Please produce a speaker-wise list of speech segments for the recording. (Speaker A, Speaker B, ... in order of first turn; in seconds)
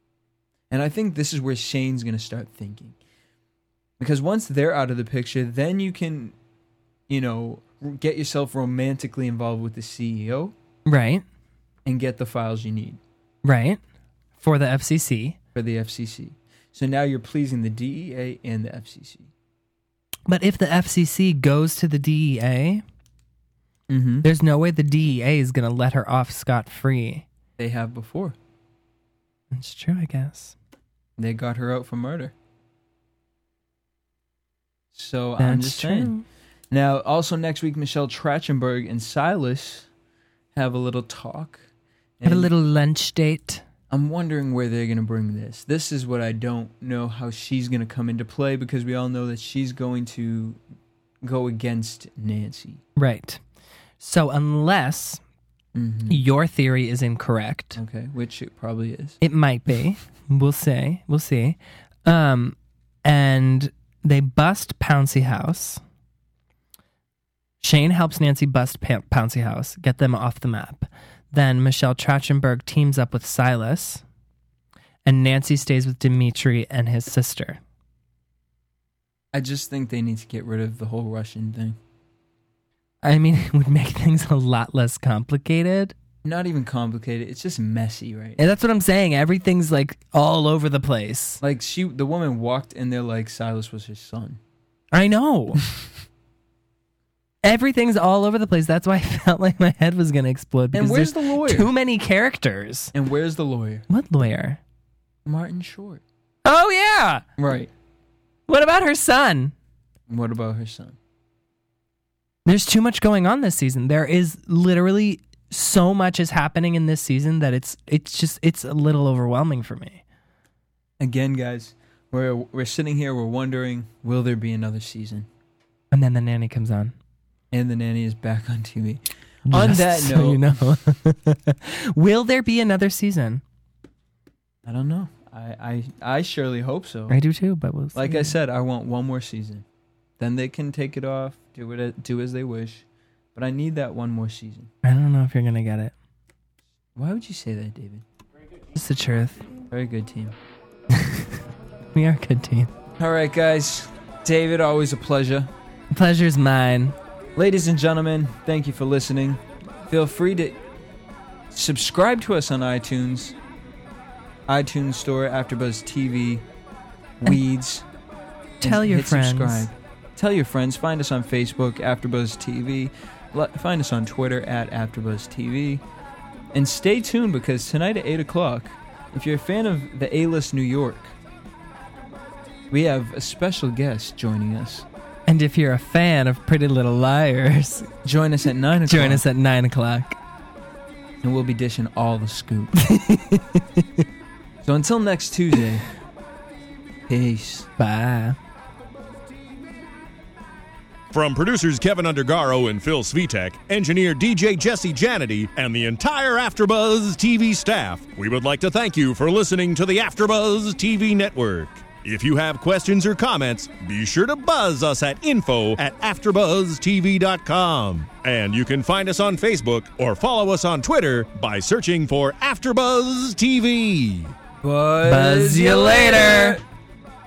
Speaker A: 0.7-3.0, 4.0-6.3, 7.1-10.5, 11.8-13.0, 15.6-19.3, 23.9-24.3, 27.6-28.4, 31.2-32.3, 34.9-36.1, 36.7-39.9, 40.5-41.7, 42.2-42.5, 43.9-50.6, 51.2-52.8, 55.7-56.2, 57.8-59.2, 79.3-81.8, 86.2-88.4, 91.4-94.4, 100.7-101.7, 102.9-103.9, 105.3-106.0, 107.4-107.7, 110.1-111.0, 121.0-125.3, 127.5-130.6, 134.7-137.2, 137.9-139.7, 140.2-144.7, 146.9-148.0, 149.7-150.3, 153.0-155.5, 157.3-160.6, 161.5-163.4, 164.5-166.4, 167.2-167.9, 168.6-175.8, 176.5-181.2, 182.7-184.9, 188.0-189.2, 191.2-192.8, 194.6-195.9, 197.1-197.7, 224.6-226.6
Speaker B: 10.9-11.2, 13.4-13.8, 14.4-15.4, 20.3-22.8, 24.2-27.3, 29.5-30.6, 35.4-36.2, 42.2-43.6, 53.0-53.4, 54.0-55.2, 56.1-57.8, 59.2-65.8, 67.6-74.0, 75.0-77.6, 83.0-86.0, 88.4-91.4, 94.9-95.7, 97.4-102.9, 103.9-104.6, 106.5-107.2, 108.5-109.5, 112.5-120.0, 125.9-126.9, 129.5-133.4, 137.1-138.4, 144.8-145.9, 148.8-149.5, 151.0-151.3, 151.9-152.7, 155.9-156.9, 168.6-169.7, 185.3-187.9, 188.9-190.2, 192.8-194.0, 197.8-198.4, 225.0-226.6
Speaker C: 201.1-224.3